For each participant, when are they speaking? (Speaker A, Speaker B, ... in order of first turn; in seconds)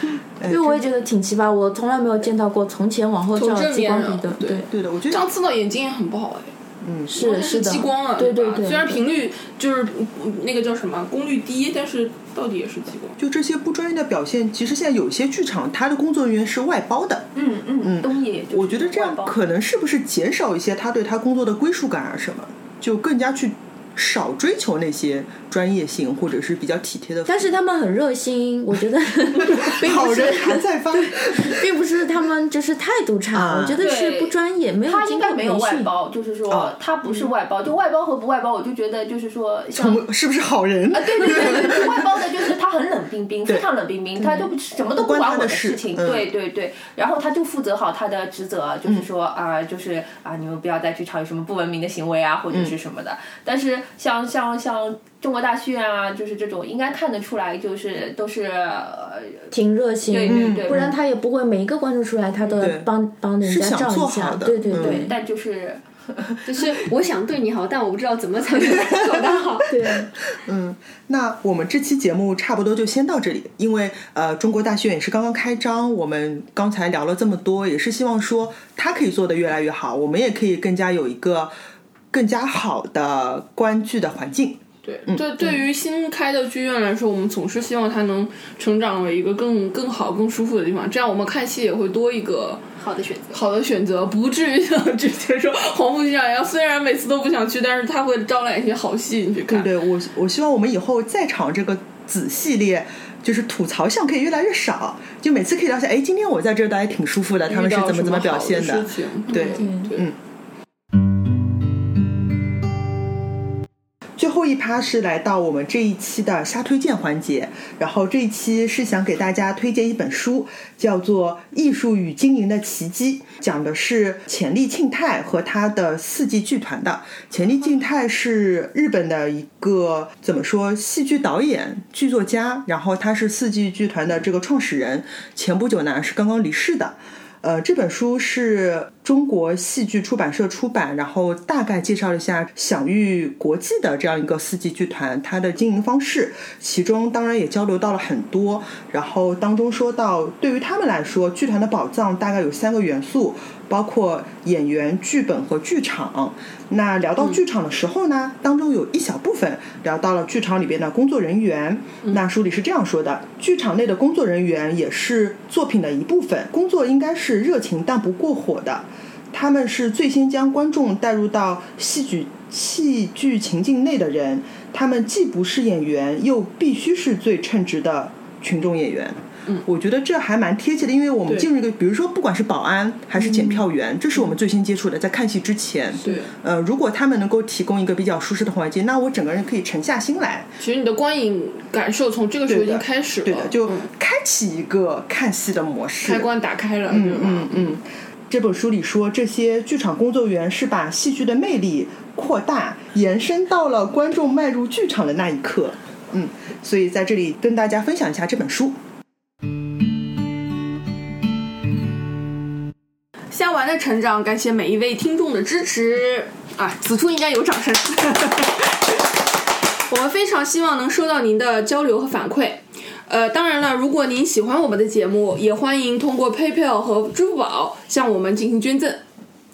Speaker A: 0.4-0.8, 4.7-5.2, 6.8-7.1, 13.2-17.3, 17.8-27.4, 29.4-31.6, 33.3-33.9, 36.5-36.7, 39.7-42.0, 43.5-46.3, 60.2-61.0, 62.6-65.1, 68.5-81.5, 82.1-85.4, 99.5-110.2, 114.2-190.5, 192.5-196.3, 196.9-208.8
Speaker B: 0.5-4.7, 7.1-9.0, 27.2-35.9, 59.5-65.1, 69.7-70.1, 109.5-109.9
Speaker C: 3.3-6.5, 7.1-13.2, 84.8-92.6, 93.3-99.7, 107.5-109.9, 186.0-186.3, 190.6-193.9, 196.0-197.8, 213.3-219.1, 219.9-229.0
Speaker D: 17.4-19.3, 33.8-40.0, 40.9-59.5, 60.1-60.9, 64.7-66.4
Speaker E: 66.5-69.9, 92.8-93.4